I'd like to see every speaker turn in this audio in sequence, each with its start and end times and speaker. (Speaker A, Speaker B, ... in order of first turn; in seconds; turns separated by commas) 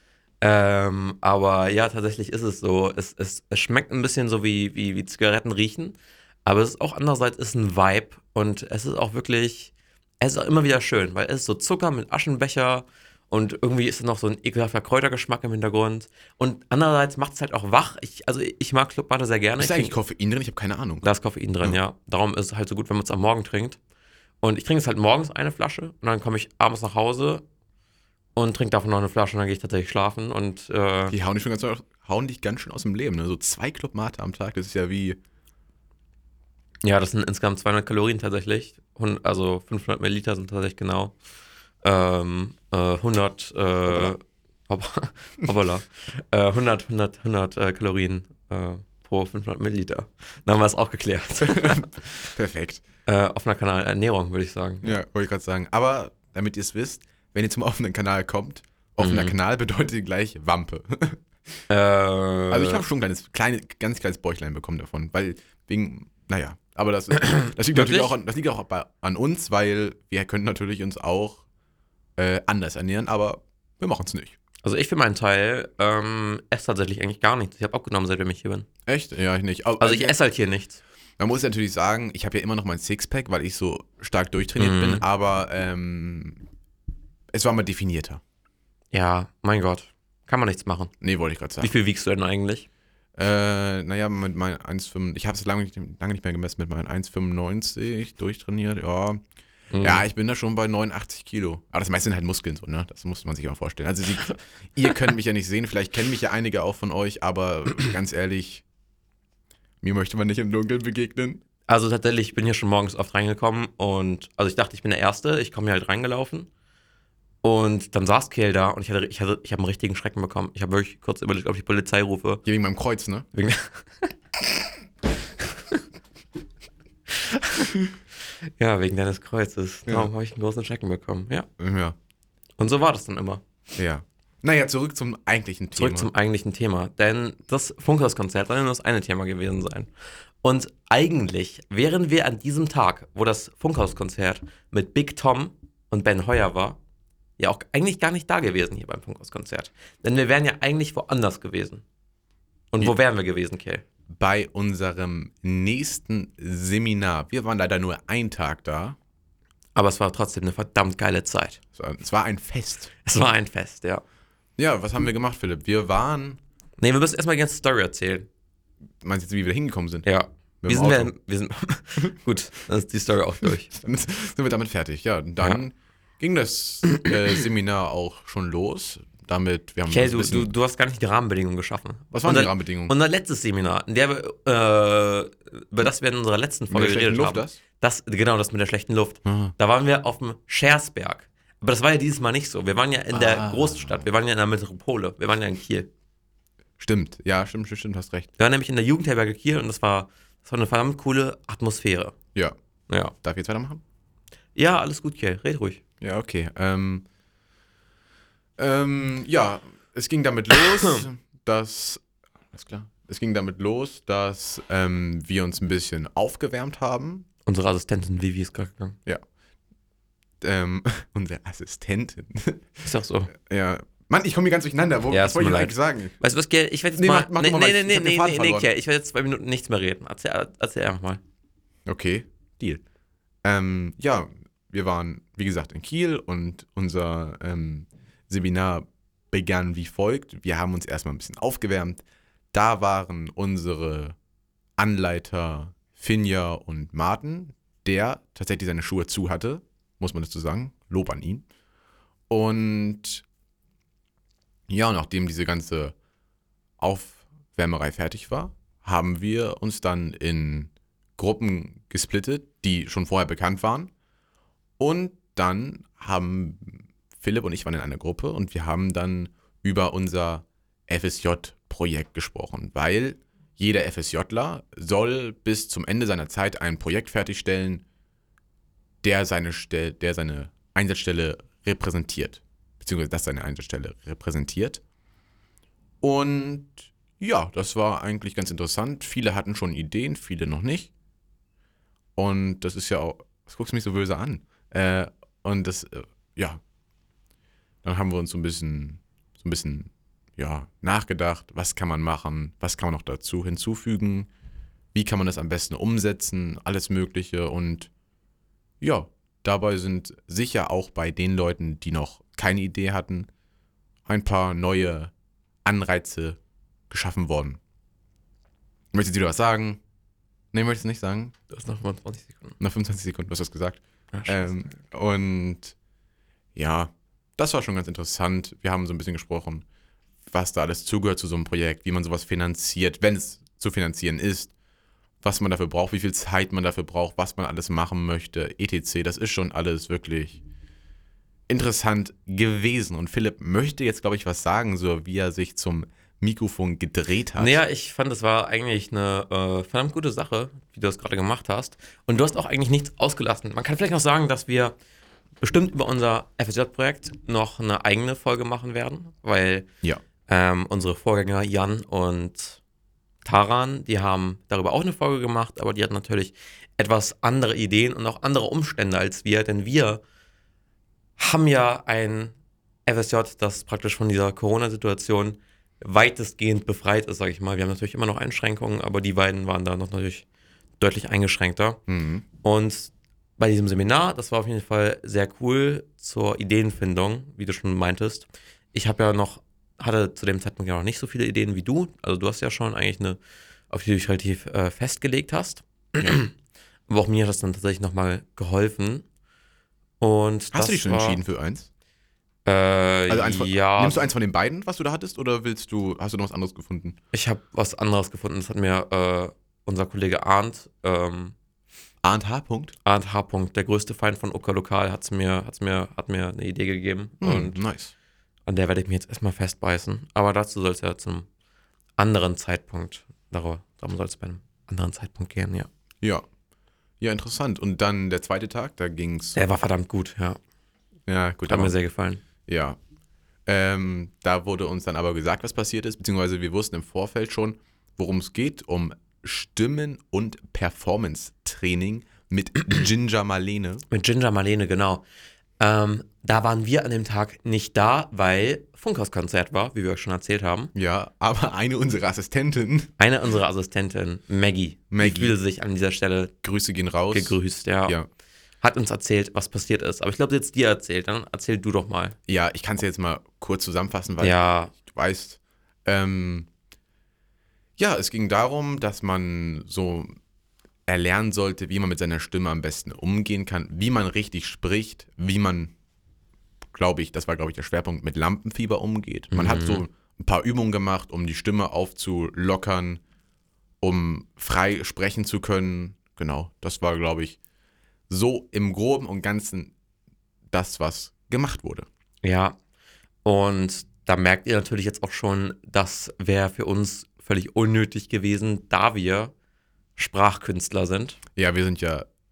Speaker A: 0.4-19.9, Speaker B: 19.6-21.1, Speaker A: 21.0-23.8, Speaker A: 24.4-27.4, Speaker A: 28.4-31.2, Speaker B: 31.1-35.2, Speaker A: 36.8-41.1, Speaker A: 41.8-52.3, Speaker B: 51.4-52.8, Speaker A: 53.1-55.0, Speaker B: 54.8-61.2, Speaker A: 59.0-59.4, Speaker A: 61.7-62.8, Speaker B: 62.5-71.5, Speaker A: 67.2-68.1, Speaker B: 72.2-74.4, Speaker A: 74.6-78.7, Speaker B: 78.9-80.2, Speaker A: 79.8-80.8, Speaker B: 81.2-86.4, Speaker A: 84.6-85.0, Speaker B: 87.3-88.2, Speaker A: 88.9-90.9, Speaker B: 91.0-91.7, Speaker A: 91.6-92.7, Speaker B: 93.2-99.2, Speaker A: 99.7-100.0, Speaker B: 99.8-108.6, Speaker B: 109.8-111.4, Speaker A: 111.7-116.5, Speaker A: 117.4-122.4, Speaker B: 122.5-123.3, Speaker A: 123.3-124.1, Speaker A: 127.1-127.8, Speaker A: 128.6-131.5, Speaker B: 131.6-132.0, Speaker A: 132.6-133.4, Speaker B: 133.8-136.1, Speaker A: 135.8-139.9, Speaker A: 140.4-146.8, Speaker A: 147.4-151.8, Speaker A: 152.7-153.8, Speaker B: 154.1-159.0, Speaker A: 159.8-161.6, Speaker B: 161.7-162.9, Speaker A: 163.0-164.0, Speaker B: 164.6-166.4, Speaker A: 166.8-168.3, Speaker B: 169.0-170.1, Speaker A: 170.1-173.7, Speaker B: 170.6-171.1, Speaker B: 173.7-180.5, Speaker A: 179.9-195.9, Speaker B: 182.1-182.9, Speaker B: 186.7-187.6, Speaker B: 189.2-189.5, Speaker B: 193.1-194.1, Speaker B: 196.8-198.3, Speaker A: 198.4-202.2, Speaker A: 202.9-203.1, Speaker B: 203.2-203.8, Speaker A: 204.6-205.8, Speaker B: 206.0-207.1, Speaker B: 208.6-217.3, Speaker A: 210.6-211.1, Speaker A: 217.5-219.0, Speaker B: 220.4-226.2, Speaker A: 222.8-223.3, Speaker A: 225.1-231.2, Speaker B: 227.0-228.7, Speaker B: 231.9-232.8, Speaker B: 233.4-244.2, Speaker B: 244.8-251.4, Speaker B: 252.3-253.2, Speaker B: 254.7-255.9, Speaker B: 256.8-263.9, Speaker B: 264.8-277.8, Speaker B: 279.0-284.8, Speaker B: 286.0-290.9, Speaker B: 292.2-296.6, Speaker B: 297.8-304.3, Speaker B: 304.9-307.9, Speaker B: 308.8-313.3, Speaker B: 314.1-315.1, Speaker B: 315.6-316.4, Speaker B: 316.9-317.6, Speaker B: 318.9-319.8, Speaker B: 320.5-321.3, Speaker A: 321.5-322.6, Speaker B: 322.6-325.8, Speaker A: 324.1-324.8, Speaker B: 326.6-329.6, Speaker B: 330.3-334.5, Speaker B: 335.2-340.4, Speaker B: 341.5-347.6, Speaker A: 347.4-354.8, Speaker A: 355.4-359.7, Speaker A: 360.3-362.6, Speaker A: 363.2-370.0, Speaker A: 371.2-372.3, Speaker A: 372.9-380.2, Speaker A: 380.8-381.8, Speaker B: 381.9-382.2, Speaker A: 382.4-393.2, Speaker A: 393.7-396.3, Speaker A: 396.9-399.1, Speaker A: 400.0-401.2, Speaker B: 400.5-401.7, Speaker A: 402.5-404.1, Speaker B: 403.1-407.0, Speaker A: 407.1-411.4, Speaker B: 412.0-412.8, Speaker A: 412.9-417.6, Speaker B: 417.2-417.9, Speaker A: 418.5-421.3, Speaker A: 422.0-425.7, Speaker B: 427.0-429.4, Speaker A: 429.4-430.4, Speaker B: 431.1-431.8, Speaker A: 431.5-432.2, Speaker B: 432.4-432.8, Speaker B: 433.5-443.9, Speaker A: 443.9-445.0, Speaker A: 445.6-450.7, Speaker B: 450.8-452.9, Speaker A: 453.0-456.3, Speaker B: 454.9-455.4, Speaker B: 456.4-458.1, Speaker A: 457.1-458.0, Speaker A: 458.6-462.2, Speaker B: 462.3-466.5, Speaker A: 464.2-464.7, Speaker B: 467.8-470.2, Speaker B: 470.9-475.7, Speaker B: 476.7-483.0, Speaker A: 479.3-479.8, Speaker B: 483.8-487.4, Speaker B: 488.1-489.7, Speaker B: 490.5-491.9, Speaker A: 492.2-492.6, Speaker A: 493.2-499.3, Speaker A: 500.0-501.2, Speaker B: 501.4-502.1